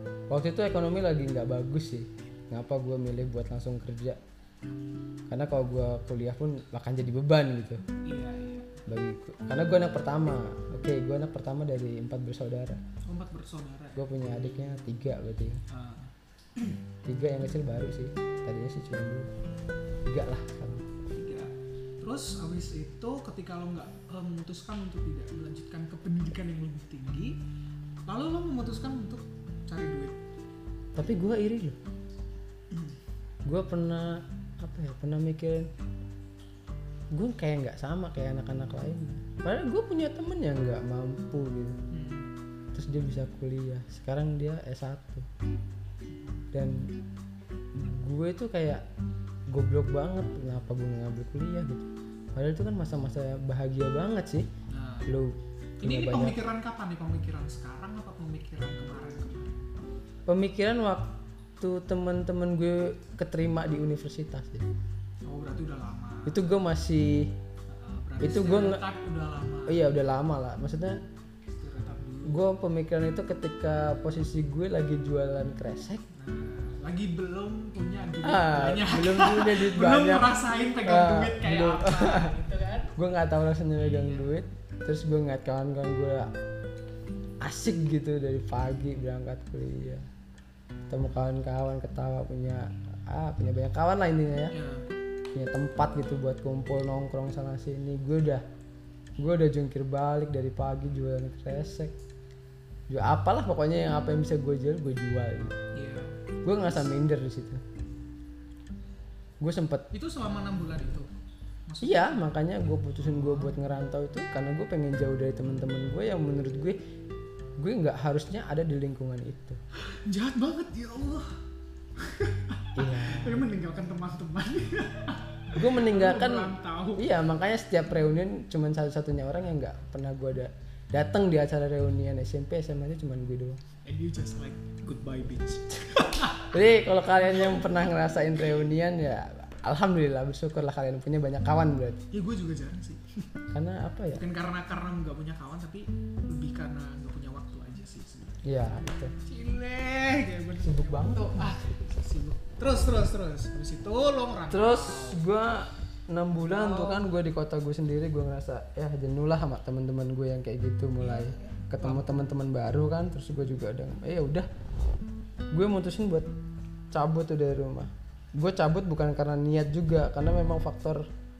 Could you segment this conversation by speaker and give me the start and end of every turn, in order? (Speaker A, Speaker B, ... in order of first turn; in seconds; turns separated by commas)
Speaker A: 0.3-4.2, Speaker A: 5.3-7.8, Speaker B: 8.0-8.8, Speaker A: 8.9-12.8, Speaker B: 13.1-14.1, Speaker A: 13.9-15.6, Speaker B: 15.7-16.8, Speaker A: 17.1-19.3, Speaker A: 20.1-20.9, Speaker B: 21.1-27.4, Speaker B: 28.1-30.2, Speaker A: 30.9-31.8, Speaker A: 33.4-35.7, Speaker A: 37.1-41.8, Speaker B: 41.9-42.3, Speaker A: 42.7-45.3, Speaker A: 46.5-46.8, Speaker A: 47.7-48.8, Speaker A: 49.5-54.5, Speaker B: 54.7-55.1, Speaker A: 55.1-56.4, Speaker B: 55.8-59.7, Speaker A: 60.3-61.1, Speaker A: 61.6-64.7, Speaker B: 65.2-66.5, Speaker A: 66.2-67.3, Speaker B: 67.7-69.8, Speaker A: 68.2-68.8, Speaker A: 69.7-71.0, Speaker B: 71.5-72.4, Speaker A: 72.3-76.0, Speaker B: 76.1-82.9, Speaker A: 78.2-82.3, Speaker A: 83.0-86.3, Speaker B: 83.8-84.3, Speaker A: 87.4-90.0, Speaker A: 90.9-94.5, Speaker B: 94.5-94.8, Speaker A: 95.3-98.4, Speaker A: 99.2-101.9, Speaker A: 102.9-105.6, Speaker B: 105.7-106.1, Speaker A: 106.4-107.6, Speaker A: 109.4-109.9, Speaker B: 109.9-111.1, Speaker B: 111.7-112.3, Speaker A: 111.8-116.8, Speaker B: 113.0-113.5, Speaker A: 117.6-119.6, Speaker B: 120.0-121.3, Speaker B: 122.0-127.1, Speaker A: 122.8-123.5, Speaker A: 125.5-133.6, Speaker B: 133.8-136.7, Speaker A: 136.4-142.0, Speaker B: 137.2-137.8, Speaker B: 142.1-143.3, Speaker A: 143.5-144.2, Speaker B: 144.1-148.4, Speaker A: 148.4-149.1, Speaker B: 149.2-155.2, Speaker A: 150.6-151.6, Speaker A: 154.5-164.5, Speaker B: 156.4-157.1, Speaker B: 161.0-162.3, Speaker A: 165.5-166.3, Speaker A: 166.9-171.0